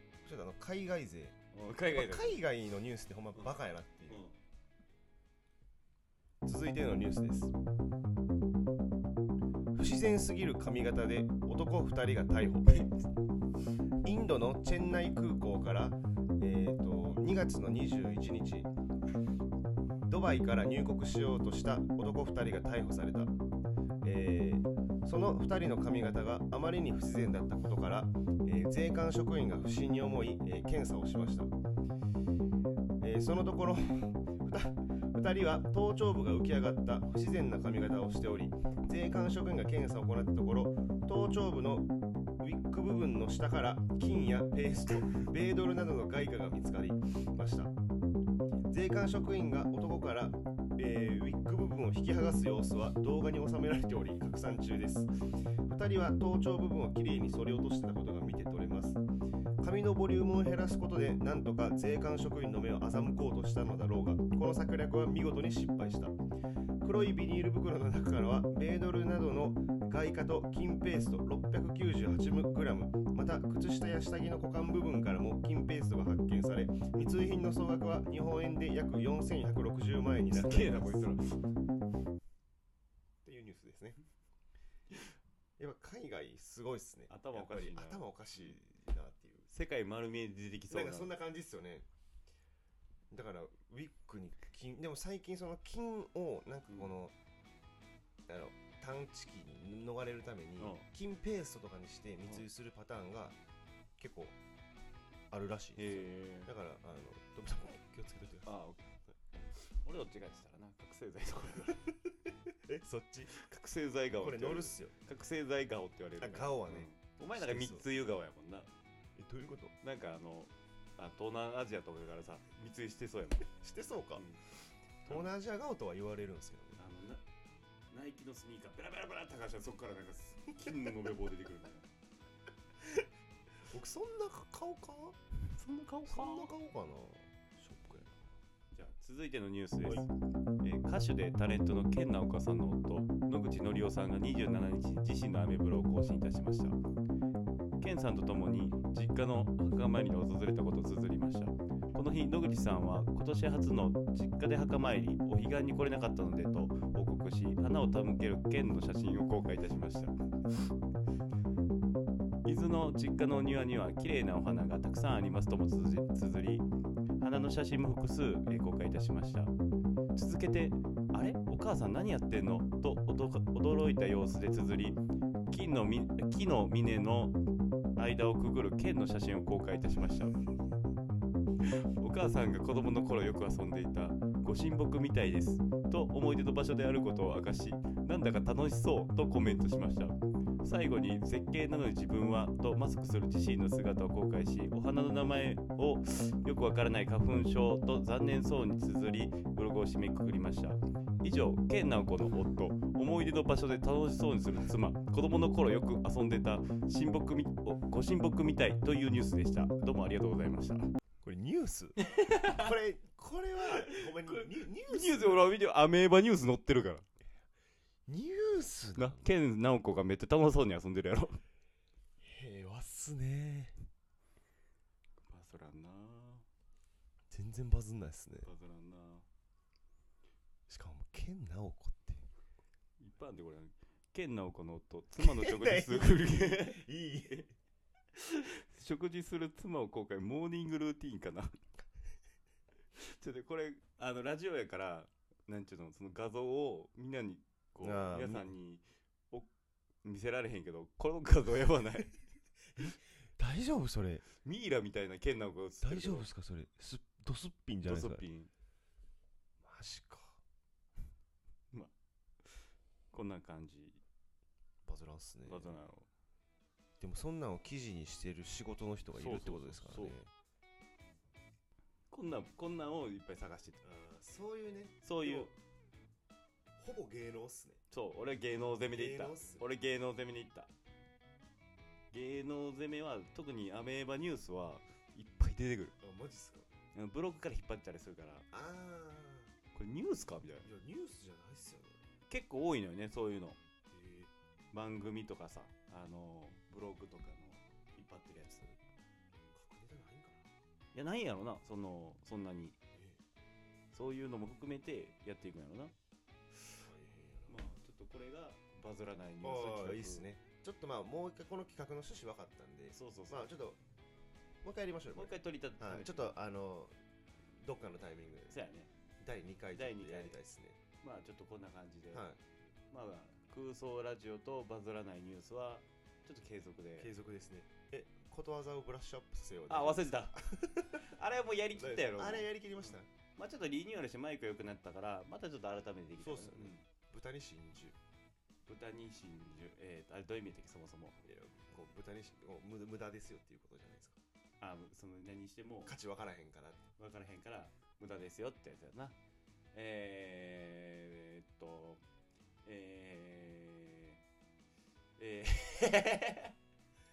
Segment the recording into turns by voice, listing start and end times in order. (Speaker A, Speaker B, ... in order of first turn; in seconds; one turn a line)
Speaker A: 0.2-1.4
Speaker B: 1.5-2.4
Speaker A: 1.9-4.2
Speaker B: 4.1-4.4
Speaker A: 6.4-7.5
Speaker A: 9.7-12.9
Speaker B: 12.7-13.0
Speaker A: 14.1-18.7
Speaker A: 20.1-23.3
Speaker A: 24.0-31.5
Speaker A: 33.0-47.7
Speaker A: 48.7-55.1
Speaker A: 55.7-59.0
Speaker A: 59.6-66.1
Speaker A: 66.8-81.1
Speaker B: 80.3-81.4
Speaker A: 83.2-84.0
Speaker A: 85.6-89.5
Speaker B: 87.1-88.5
Speaker B: 89.5-91.2
Speaker A: 90.7-91.9
Speaker A: 93.1-97.2
Speaker A: 98.3-103.4
Speaker B: 100.6-100.8
Speaker A: 104.0-104.3
Speaker A: 105.3-108.5
Speaker B: 105.8-106.5
Speaker B: 108.5-108.8
Speaker B: 109.8-111.9
Speaker A: 112.7-113.3
Speaker B: 113.4-118.7
Speaker A: 114.2-114.9
Speaker A: 116.2-117.9
Speaker A: 119.2-119.7
Speaker B: 119.8-123.5
Speaker A: 123.6-124.3
Speaker B: 124.2-124.4
Speaker A: 125.0-126.8
Speaker B: 126.8-127.2
Speaker B: 127.9-131.9
Speaker A: 133.7-135.2
Speaker B: 135.5-136.5
Speaker A: 136.1-138.2
Speaker B: 138.7-140.1
Speaker B: 140.6-146.8
Speaker B: 147.8-160.1
Speaker B: 162.4-166.7
Speaker B: 167.2-169.5
Speaker B: 170.2-177.3
Speaker B: 178.0-180.3
Speaker B: 181.6-210.8
Speaker A: 211.2-215.6
Speaker B: 212.1-212.7
Speaker B: 213.7-217.1
Speaker A: 218.1-219.2
Speaker B: 219.0-221.4
Speaker A: 222.2-223.7
Speaker B: 225.2-226.5
Speaker A: 227.3-228.5
Speaker B: 228.4-229.3
Speaker A: 230.7-232.3
Speaker B: 233.0-236.8
Speaker A: 235.2-237.5
Speaker B: 238.2-241.6
Speaker B: 243.0-249.5
Speaker A: 247.8-248.5
Speaker B: 250.0-252.2
Speaker A: 252.8-254.2
Speaker B: 254.4-256.3
Speaker A: 255.8-258.2
Speaker B: 257.9-258.5
Speaker A: 259.6-260.4
Speaker B: 263.1-264.0
Speaker A: 264.9-265.8
Speaker B: 265.4-266.1
Speaker A: 267.0-270.3
Speaker B: 269.1-270.2
Speaker B: 272.1-273.8
Speaker A: 273.8-275.5
Speaker B: 275.0-275.5
Speaker A: 276.8-277.8
Speaker B: 277.9-280.7
Speaker A: 278.9-279.6
Speaker B: 282.1-285.9
Speaker A: 286.0-286.7
Speaker B: 286.9-288.5
Speaker A: 288.5-289.5
Speaker B: 289.7-290.7
Speaker A: 290.6-292.0
Speaker B: 292.3-293.6
Speaker A: 293.9-294.3
Speaker B: 294.7-298.8
Speaker A: 299.5-300.5
Speaker B: 300.9-302.8
Speaker A: 302.9-303.2
Speaker B: 303.9-305.9
Speaker A: 306.8-307.6
Speaker B: 307.5-310.3
Speaker A: 309.4-313.8
Speaker B: 312.9-313.5
Speaker A: 314.6-316.9
Speaker B: 315.1-316.3
Speaker A: 317.6-318.6
Speaker B: 318.5-318.9
Speaker A: 319.2-320.8
Speaker B: 319.7-320.4
Speaker B: 321.0-322.3
Speaker A: 322.1-322.4
Speaker B: 322.9-327.1
Speaker A: 327.0-331.0
Speaker B: 329.7-330.4
Speaker B: 331.0-336.8
Speaker A: 331.8-333.1
Speaker A: 336.2-338.0
Speaker B: 338.7-341.2
Speaker A: 341.2-344.2
Speaker B: 344.6-345.9
Speaker A: 345.9-346.9
Speaker B: 347.0-349.2
Speaker B: 349.7-352.0
Speaker B: 352.6-354.2
Speaker B: 355.2-356.5